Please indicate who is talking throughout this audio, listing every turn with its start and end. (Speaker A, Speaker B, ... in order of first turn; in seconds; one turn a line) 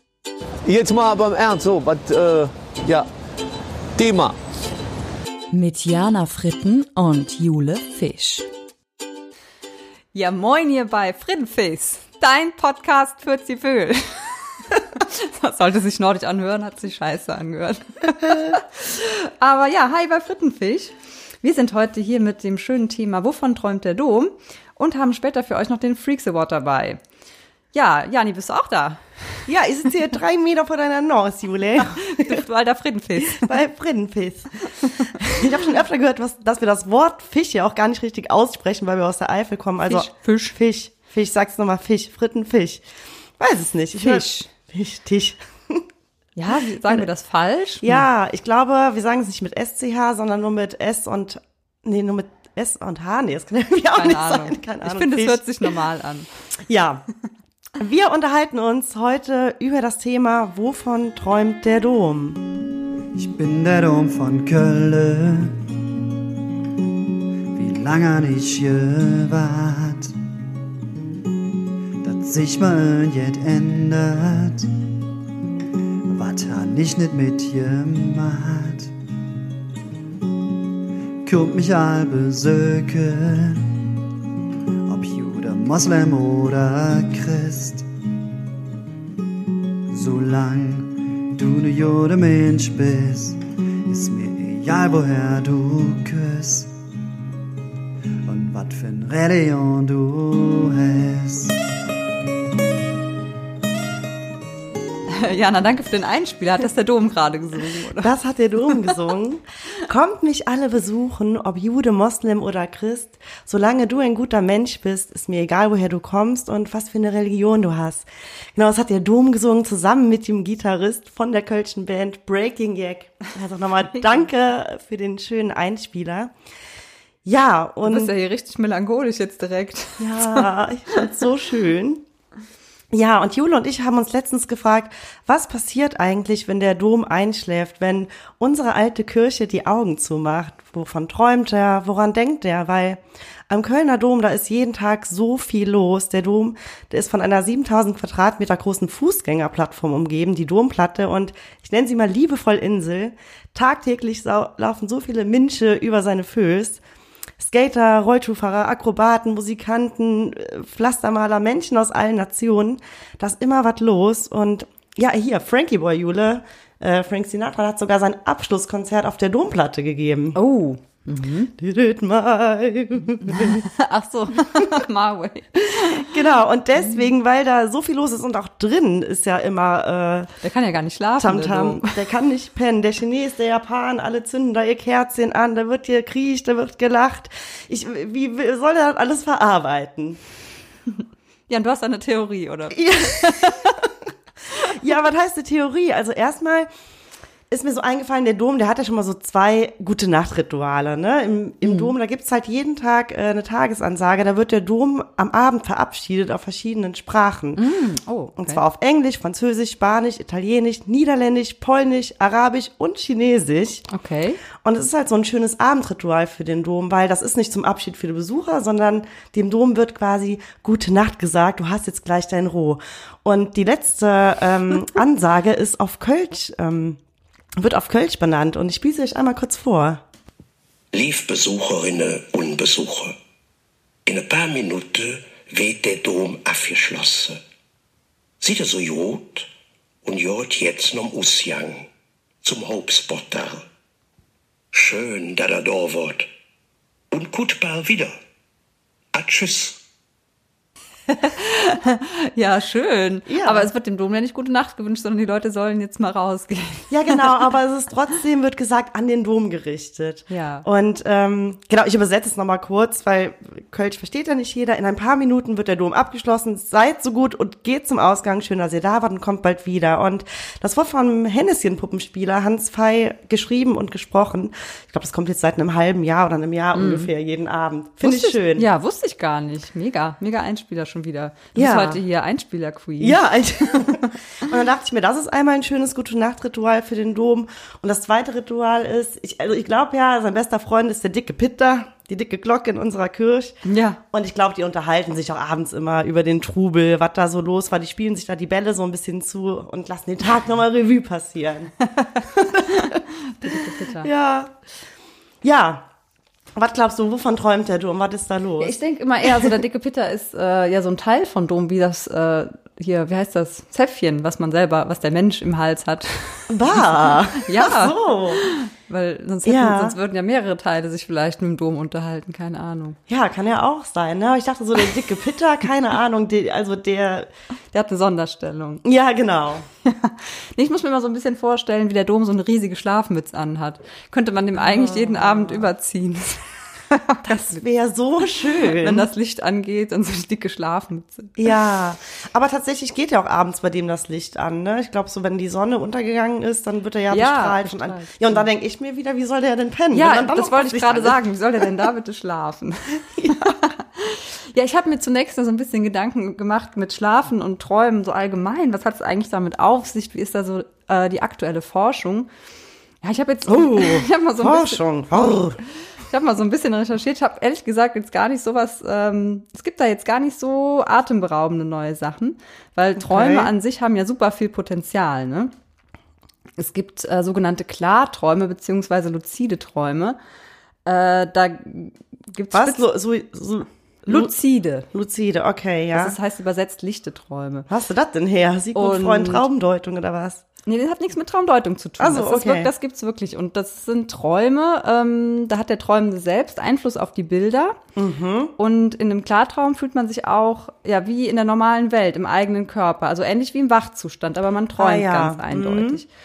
Speaker A: 0.7-3.1
Speaker A: 4.0-4.4
Speaker B: 5.5-8.5
Speaker C: 10.1-14.1
Speaker C: 14.7-27.0
Speaker C: 27.7-29.0
Speaker D: 29.5-32.4
Speaker C: 31.9-33.5
Speaker D: 33.2-42.8
Speaker C: 34.8-35.4
Speaker C: 39.9-40.6
Speaker D: 43.4-45.8
Speaker C: 43.9-44.5
Speaker C: 46.4-48.1
Speaker D: 47.8-55.7
Speaker C: 53.9-56.3
Speaker D: 56.7-57.1
Speaker D: 57.8-62.4
Speaker E: 63.1-65.6
Speaker E: 67.5-70.2
Speaker E: 72.0-74.7
Speaker E: 76.1-78.9
Speaker E: 81.2-83.8
Speaker E: 84.9-87.9
Speaker E: 89.9-96.8
Speaker E: 98.2-101.6
Speaker C: 105.1-108.1
Speaker D: 108.0-126.3
Speaker D: 127.2-128.1
Speaker C: 127.8-130.5
Speaker D: 130.0-132.0
Speaker D: 132.9-156.8
Speaker D: 157.4-170.4
Speaker C: 170.3-171.5
Speaker D: 171.6-173.7
Speaker C: 173.3-176.1
Speaker D: 176.0-180.3
Speaker C: 180.4-182.0
Speaker D: 181.2-190.2
Speaker C: 191.5-193.8
Speaker D: 192.8-193.8
Speaker D: 194.7-196.7
Speaker D: 197.5-207.6
Speaker C: 201.6-201.9
Speaker C: 207.6-208.6
Speaker D: 208.4-213.9
Speaker C: 213.9-214.4
Speaker D: 214.6-227.0
Speaker D: 227.6-230.0
Speaker F: 230.9-233.2
Speaker F: 234.1-237.4
Speaker F: 238.4-239.5
Speaker F: 240.0-241.9
Speaker F: 242.4-243.7
Speaker F: 244.7-246.3
Speaker F: 247.1-248.1
Speaker F: 249.1-249.8
Speaker C: 251.1-257.3
Speaker D: 253.3-253.7
Speaker D: 256.9-278.7
Speaker C: 260.3-260.7
Speaker C: 276.8-277.1
Speaker C: 278.0-284.1
Speaker D: 281.6-282.0
Speaker D: 283.0-304.5
Speaker C: 293.7-294.0
Speaker C: 302.1-304.1
Speaker D: 305.4-305.9
Speaker D: 306.6-308.8
Speaker C: 308.6-316.8
Speaker D: 316.5-318.4
Speaker C: 317.3-323.0
Speaker D: 319.5-320.0
Speaker D: 323.1-327.3
Speaker C: 327.7-328.8
Speaker D: 328.9-329.7
Speaker C: 329.9-337.6
Speaker D: 334.6-335.7
Speaker D: 337.3-339.1
Speaker C: 338.4-341.5
Speaker D: 341.4-351.6
Speaker C: 347.1-348.4
Speaker C: 349.9-362.3
Speaker D: 353.2-353.5
Speaker C: 363.0-365.4
Speaker D: 363.5-365.6
Speaker C: 366.1-375.5
Speaker D: 373.0-373.5
Speaker C: 376.6-380.2
Speaker C: 380.9-382.8
Speaker D: 382.5-384.3
Speaker C: 384.1-384.9
Speaker D: 384.9-386.2
Speaker C: 385.9-387.7
Speaker D: 387.7-390.4
Speaker C: 388.8-389.4
Speaker C: 390.7-397.8
Speaker D: 392.0-392.7
Speaker D: 398.0-398.5
Speaker C: 398.6-406.1
Speaker D: 404.8-406.0